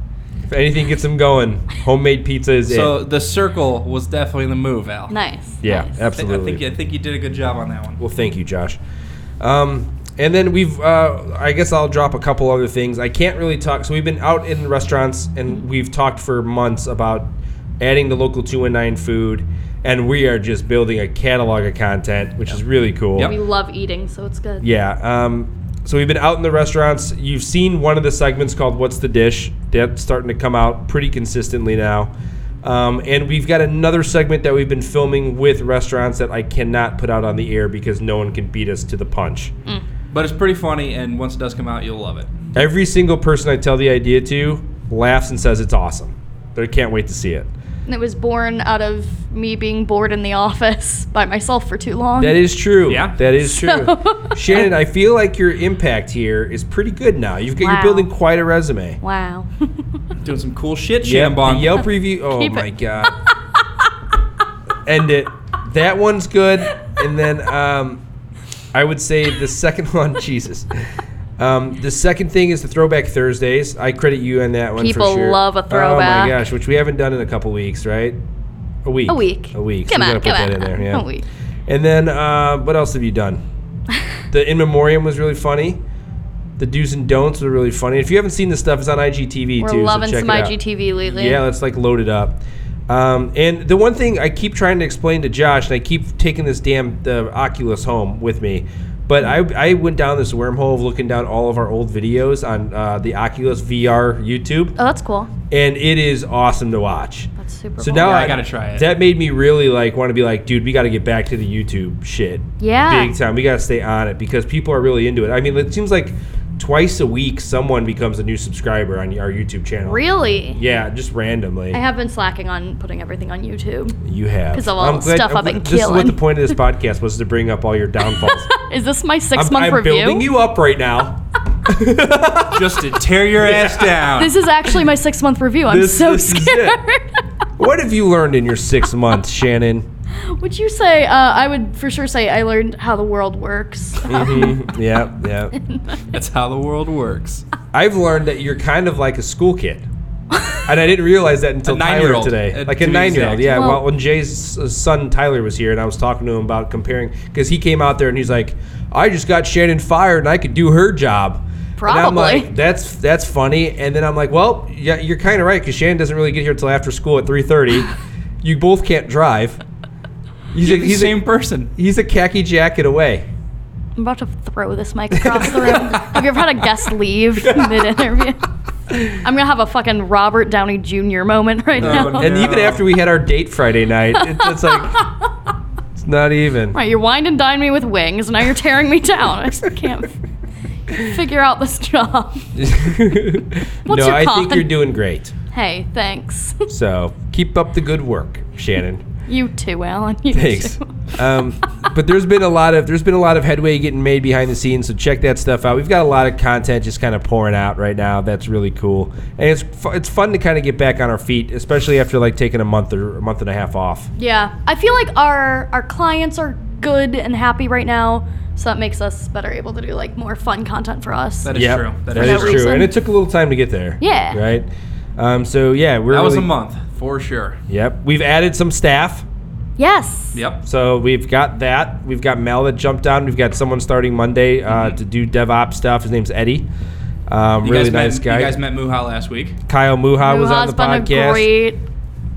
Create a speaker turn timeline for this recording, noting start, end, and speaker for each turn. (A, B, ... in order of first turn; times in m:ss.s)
0:00.5-0:03.0 A
0:02.6-0:05.1 B
0:05.1-0:06.0 C
0:05.6-0:06.6 A
0:06.2-0:08.0 B
0:08.0-0:08.8 A
0:09.4-0:17.3 A
0:17.8-0:23.3 A
0:23.2-0:24.7 C
0:24.6-0:32.1 A
0:32.6-0:39.5 A
0:40.1-0:42.3 B
0:42.5-0:47.5 A
0:47.9-0:52.4 C
0:52.2-0:59.0 A
0:52.9-0:53.2 B
0:53.4-0:54.2 C
0:57.6-0:58.1 C
0:59.0-0:59.7 C
1:00.2-1:01.8 B
1:01.0-1:03.2 A
1:02.3-1:02.7 C
1:04.8-1:08.0 A
1:08.7-1:10.7 A
1:11.4-1:18.2 A
1:14.8-1:16.4 C
1:18.8-1:21.0 A
1:19.1-1:21.2 C
1:21.7-1:23.4 A
1:24.3-1:25.8 A
1:26.6-1:30.5 A
1:29.6-1:31.4 C
1:31.1-1:44.7 A
1:44.8-1:45.3 C
1:45.5-2:00.0 A
1:47.4-1:48.4 C
1:47.9-1:48.9 B
1:52.6-1:53.1 C
1:59.8-2:00.6 C
2:00.5-2:01.8 A
2:01.7-2:04.0 C
2:04.0-2:08.5 A
2:04.5-2:06.3 C
2:08.2-2:10.3 C
2:09.3-2:14.1 A
2:12.5-2:14.4 B
2:14.2-2:17.2 C
2:15.7-2:16.8 A
2:17.6-2:19.9 A
2:20.2-2:24.6 C
2:24.0-2:25.5 A
2:25.5-2:26.0 C
2:26.1-2:27.4 B
2:27.7-2:29.8 A
2:30.6-2:49.6 A
2:31.6-2:33.6 B
2:33.4-2:33.8 C
2:41.8-2:42.5 C
2:50.5-2:51.2 A
2:50.6-2:51.7 B
2:51.8-2:53.3 A
2:54.0-2:58.4 C
2:55.2-2:56.0 A
2:59.0-3:02.3 C
3:01.8-3:05.0 A
3:01.8-3:02.9 B
3:04.1-3:05.2 C
3:06.0-3:06.8 A
3:06.7-3:10.1 C
3:10.9-3:12.5 C
3:12.5-3:15.3 A
3:13.8-3:14.7 C
3:15.5-3:16.6 C
3:16.7-3:19.0 A
3:19.3-3:21.1 C
3:20.3-3:34.1 A
3:34.2-3:41.5 C
3:41.4-3:42.7 B
3:41.5-3:46.5 A
3:42.1-3:42.9 C
3:44.0-3:44.4 C
3:46.1-3:47.6 B
3:47.7-3:49.2 A
3:49.8-3:50.4 C
3:50.3-3:50.6 B
3:50.6-3:56.7 A
3:54.7-3:55.0 B
3:57.3-3:58.6 A
3:57.6-3:59.6 B
3:59.7-4:01.5 A
4:00.2-4:01.8 C